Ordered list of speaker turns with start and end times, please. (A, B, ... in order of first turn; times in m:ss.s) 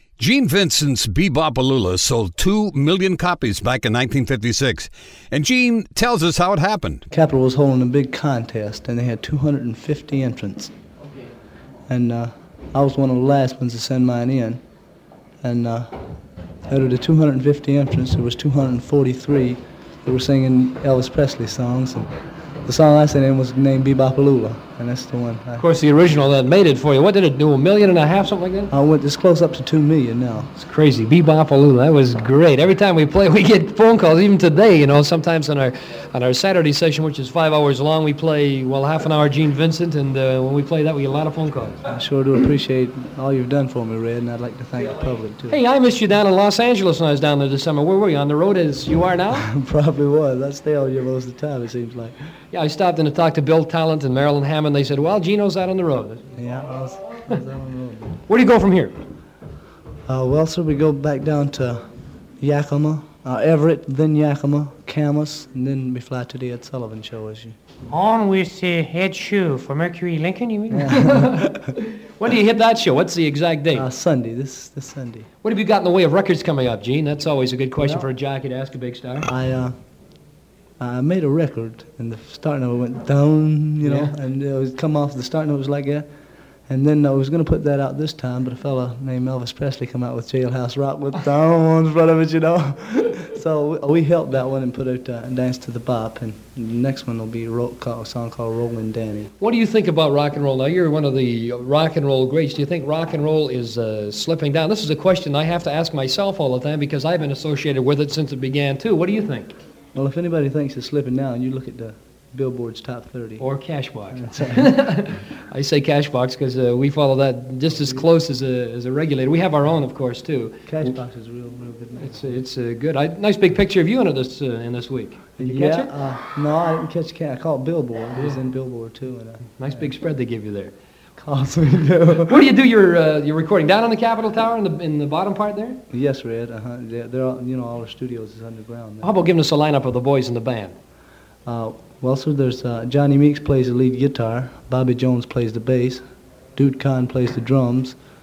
0:00.2-0:07.0 A
0:07.1-0:10.7 B
0:11.9-0:14.6 B
0:15.4-0:15.9 B
0:16.7-0:22.1 B
0:22.6-0:25.7 B
0:25.6-0:28.7 C
0:28.7-0:30.5 B
0:30.6-0:41.8 C
0:41.9-0:45.6 B
0:45.5-0:49.5 C
0:49.3-0:52.1 B
0:52.5-0:56.2 C
0:56.3-0:58.2 B
0:58.3-0:58.9 C
1:00.1-1:01.8 B
1:02.4-1:07.6 B
1:07.9-1:10.9 D
1:10.7-1:11.7 B
1:10.8-1:13.9 C
1:13.7-1:15.3 B
1:15.4-1:19.3 C
1:17.8-1:18.1 B
1:19.3-1:19.7 B
1:20.8-1:26.1 B
1:23.8-1:24.1 C
1:26.7-1:39.3 B
1:39.4-1:49.6 C
1:49.9-1:53.4 B
1:53.4-2:00.9 C
1:54.1-1:54.9 B
2:00.7-2:02.2 B
2:02.0-2:05.9 C
2:05.4-2:09.9 B
2:09.6-2:10.7 C
2:11.2-2:12.5 B
2:12.2-2:15.8 C
2:15.9-2:19.2 B
2:19.0-2:20.7 C
2:21.5-2:26.0 B
2:26.6-2:28.0 B